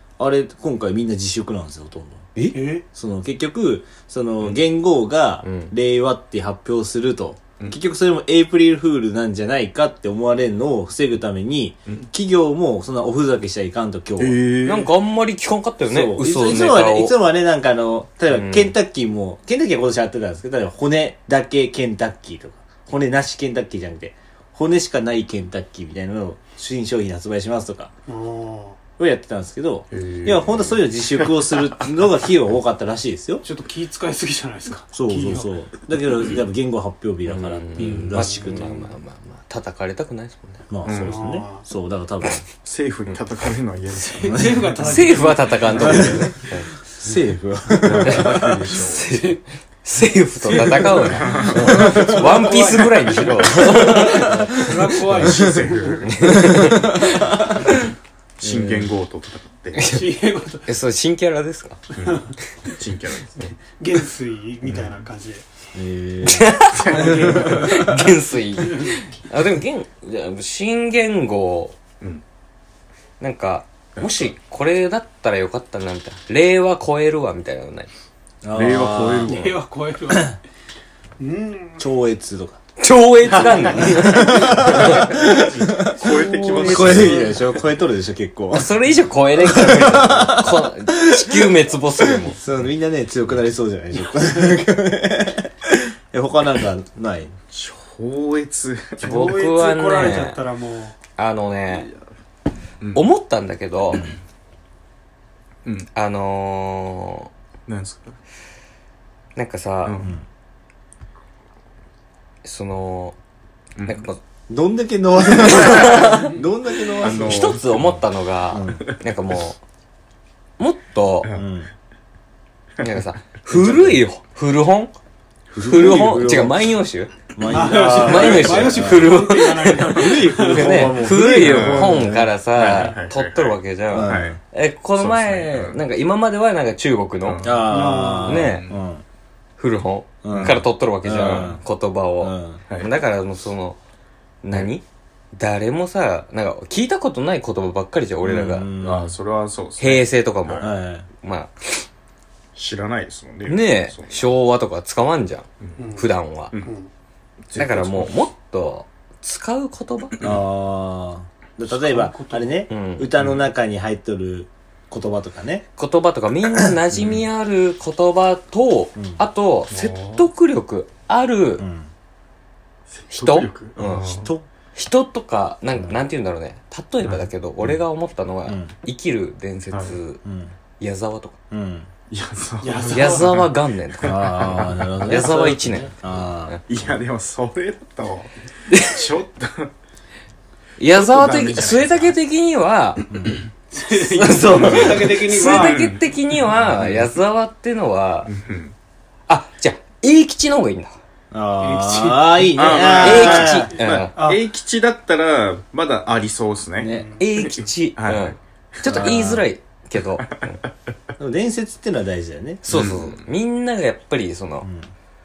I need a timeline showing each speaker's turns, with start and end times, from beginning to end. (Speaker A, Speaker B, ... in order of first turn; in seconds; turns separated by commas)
Speaker A: 0.2-2.3, Speaker B: 2.5-2.8, Speaker A: 2.9-14.4, Speaker C: 5.4-5.7, Speaker D: 14.2-14.9, Speaker C: 14.6-17.2, Speaker A: 15.9-27.9, Speaker C: 18.3-18.7, Speaker B: 28.1-28.8, Speaker A: 29.0-33.4, Speaker D: 29.9-31.3, Speaker B: 33.4-35.5, Speaker A: 34.9-38.8, Speaker C: 37.2-40.6, Speaker B: 37.8-38.8, Speaker A: 40.7-42.5, Speaker D: 40.8-41.2, Speaker B: 41.0-41.6, Speaker D: 42.6-44.7, Speaker B: 44.0-46.5, Speaker A: 44.2-45.0, Speaker C: 44.8-46.7, Speaker A: 45.7-46.3, Speaker A: 47.0-48.5, Speaker D: 47.7-49.2, Speaker C: 47.8-54.7, Speaker B: 50.4-56.1, Speaker D: 51.0-52.0, Speaker A: 51.5-52.3, Speaker A: 53.8-54.4, Speaker D: 54.9-56.4, Speaker C: 56.0-57.4, Speaker A: 56.3-57.7, Speaker D: 58.4-60.0, Speaker A: 58.4-58.9, Speaker B: 59.9-60.7, Speaker C: 60.6-61.8, Speaker D: 62.0-63.5, Speaker B: 62.0-62.3, Speaker B: 63.4-65.4, Speaker D: 64.6-64.9, Speaker A: 65.7-67.8, Speaker C: 66.3-71.8, Speaker D: 66.7-67.5, Speaker B: 66.8-67.6, Speaker B: 68.6-68.9, Speaker C: 73.2-77.9, Speaker D: 74.0-74.3, Speaker A: 78.4-79.3, Speaker D: 78.5-79.6, Speaker B: 79.2-80.4, Speaker B: 81.2-81.9, Speaker A: 81.8-82.6, Speaker C: 82.8-85.4, Speaker B: 83.3-85.9, Speaker A: 83.6-88.7, Speaker D: 84.7-87.3, Speaker C: 86.0-87.2, Speaker B: 86.9-87.3, Speaker C: 88.5-92.4, Speaker A: 89.4-97.3, Speaker D: 97.5-99.3, Speaker B: 99.0-101.0, Speaker C: 99.0-100.4, Speaker C: 101.2-101.9, Speaker C: 102.9-104.1, Speaker C: 105.9-107.3, Speaker D: 107.7-108.2, Speaker C: 109.3-110.0, Speaker D: 109.8-110.1, Speaker C: 112.4-113.2, Speaker D: 113.8-114.0, Speaker C: 113.8-114.2, Speaker A: 114.5-117.6, Speaker C: 115.4-116.3, Speaker D: 115.5-115.9, Speaker D: 117.0-118.0, Speaker C: 117.0-119.6, Speaker A: 118.5-118.8, Speaker C: 120.6-121.3, Speaker A: 121.3-121.7, Speaker C: 122.8-124.9, Speaker A: 123.6-123.9, Speaker D: 125.5-125.9, Speaker A: 125.5-126.8, Speaker C: 125.6-127.1, Speaker A: 127.3-129.1, Speaker B: 127.5-131.3, Speaker C: 127.9-137.5, Speaker A: 129.9-132.3, Speaker D: 131.3-134.4, Speaker A: 133.9-134.4, Speaker D: 134.9-135.8, Speaker D: 137.2-138.8, Speaker A: 137.4-139.0, Speaker B: 137.7-138.4, Speaker C: 138.2-138.7, Speaker C: 139.6-143.8, Speaker A: 140.2-141.6, Speaker D: 140.3-141.5, Speaker A: 142.2-142.6, Speaker C: 144.4-148.7, Speaker A: 148.2-149.2, Speaker D: 148.8-150.7, Speaker C: 149.8-151.8, Speaker A: 150.6-151.1, Speaker D: 152.6-154.3, Speaker C: 153.4-156.6, Speaker B: 155.8-156.9, Speaker D: 157.5-158.2, Speaker C: 157.6-160.2, Speaker A: 160.2-165.7, Speaker B: 161.7-162.6, Speaker C: 162.7-163.1, Speaker D: 163.2-163.5, Speaker C: 165.8-171.6, Speaker D: 166.9-167.2, Speaker A: 169.0-169.2, Speaker D: 169.7-170.3, Speaker A: 171.6-171.9, Speaker D: 172.9-174.3, Speaker C: 173.1-180.2, Speaker A: 173.8-174.4, Speaker A: 178.4-178.7, Speaker D: 179.7-180.0, Speaker A: 180.2-180.5, Speaker C: 180.8-181.3, Speaker A: 181.5-181.9, Speaker D: 182.1-183.5, Speaker B: 182.6-183.4, Speaker C: 182.9-185.9, Speaker A: 184.0-186.6, Speaker D: 184.5-184.9, Speaker D: 186.7-189.7, Speaker C: 188.7-188.9, Speaker C: 190.8-193.0, Speaker D: 190.9-192.1, Speaker A: 193.1-193.4, Speaker B: 193.7-195.9, Speaker C: 193.9-198.3, Speaker D: 194.5-197.1, Speaker D: 198.3-198.7, Speaker C: 199.3-200.9, Speaker A: 201.3-203.7, Speaker B: 201.6-203.4, Speaker D: 202.5-209.1, Speaker C: 203.0-204.1, Speaker B: 204.2-204.4, Speaker A: 206.8-207.1, Speaker B: 206.9-207.2, Speaker C: 207.2-210.5, Speaker A: 208.8-209.4, Speaker D: 210.2-210.5, Speaker A: 211.2-212.7, Speaker C: 212.6-214.7, Speaker D: 212.7-213.3, Speaker A: 214.6-214.9